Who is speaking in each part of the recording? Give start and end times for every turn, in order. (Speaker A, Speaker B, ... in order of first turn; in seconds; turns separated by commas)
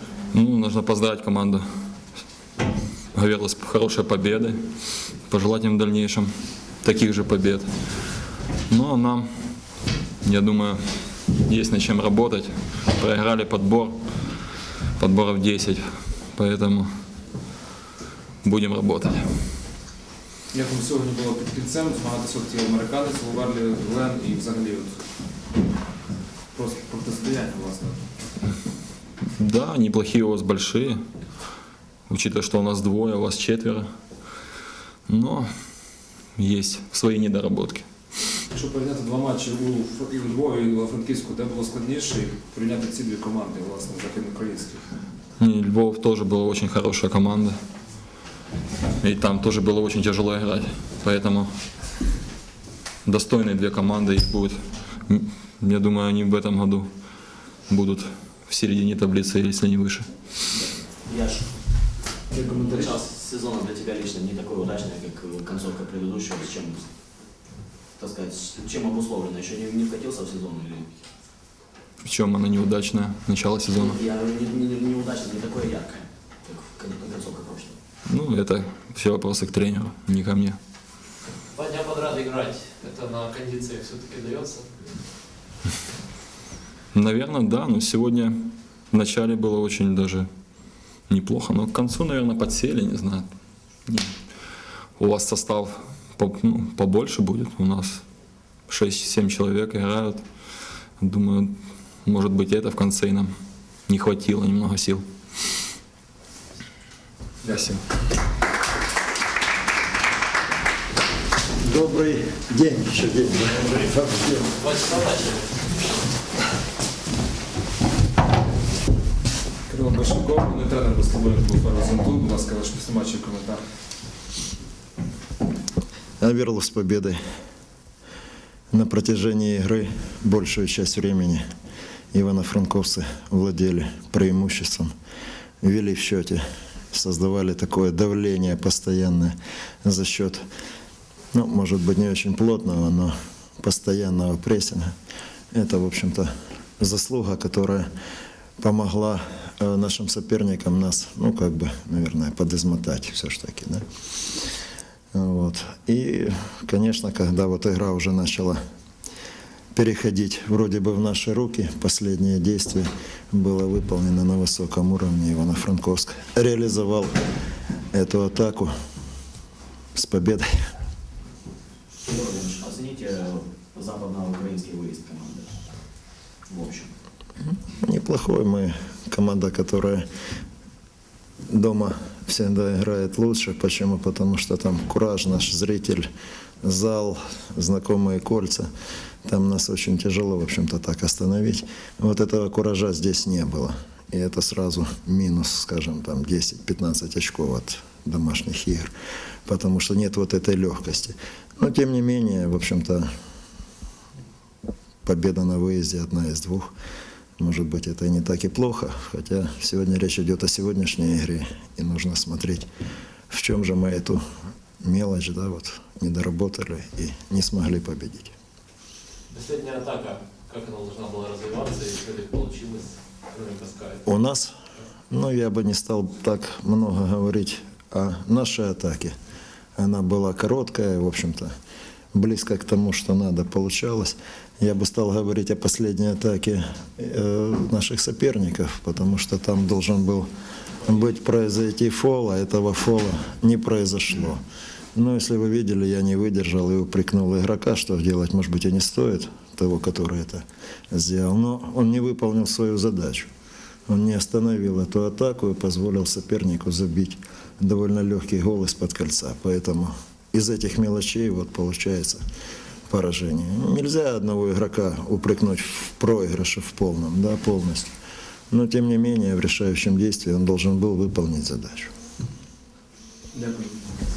Speaker A: 0.3-2.1, Speaker A: 3.1-16.9, Speaker A: 18.4-19.3, Speaker B: 20.5-25.0, Speaker B: 26.5-28.1, Speaker A: 29.4-31.0, Speaker A: 32.1-33.9, Speaker A: 35.1-37.9, Speaker B: 38.5-44.9, Speaker A: 45.4-47.5, Speaker A: 49.0-51.9, Speaker A: 53.0-60.3, Speaker C: 60.5-67.4, Speaker B: 62.3-63.0, Speaker C: 68.0-71.0, Speaker A: 72.0-74.0, Speaker C: 73.7-77.8, Speaker A: 78.0-80.6, Speaker D: 81.5-85.0, Speaker A: 86.9-88.3, Speaker A: 88.9-90.3, Speaker A: 91.0-93.3, Speaker A: 93.8-94.1, Speaker A: 95.0-98.0, Speaker A: 98.6-103.3, Speaker A: 103.8-105.0, Speaker A: 107.4-107.8, Speaker E: 111.6-114.6, Speaker D: 114.6-115.8, Speaker B: 119.7-123.6, Speaker E: 126.2-127.2, Speaker E: 128.7-131.4, Speaker E: 132.1-134.9, Speaker E: 135.6-140.4, Speaker E: 141.3-144.9, Speaker E: 145.5-147.9, Speaker E: 148.6-153.8, Speaker E: 155.1-158.6, Speaker E: 159.7-167.1, Speaker E: 167.9-168.7, Speaker E: 169.9-170.5, Speaker C: 172.0-176.9, Speaker E: 177.7-180.0, Speaker E: 181.5-186.1, Speaker E: 186.6-188.7, Speaker E: 189.2-198.9, Speaker E: 199.4-203.1, Speaker E: 205.0-206.7, Speaker E: 207.4-212.7, Speaker E: 213.3-214.2, Speaker E: 214.8-218.3, Speaker D: 219.3-224.0, Speaker E: 224.1-224.5, Speaker E: 225.1-229.1, Speaker E: 229.8-231.5, Speaker E: 232.1-240.3, Speaker E: 240.8-244.4, Speaker E: 244.9-253.3, Speaker E: 253.9-262.2, Speaker E: 262.9-267.9, Speaker E: 268.5-271.9, Speaker B: 273.3-273.7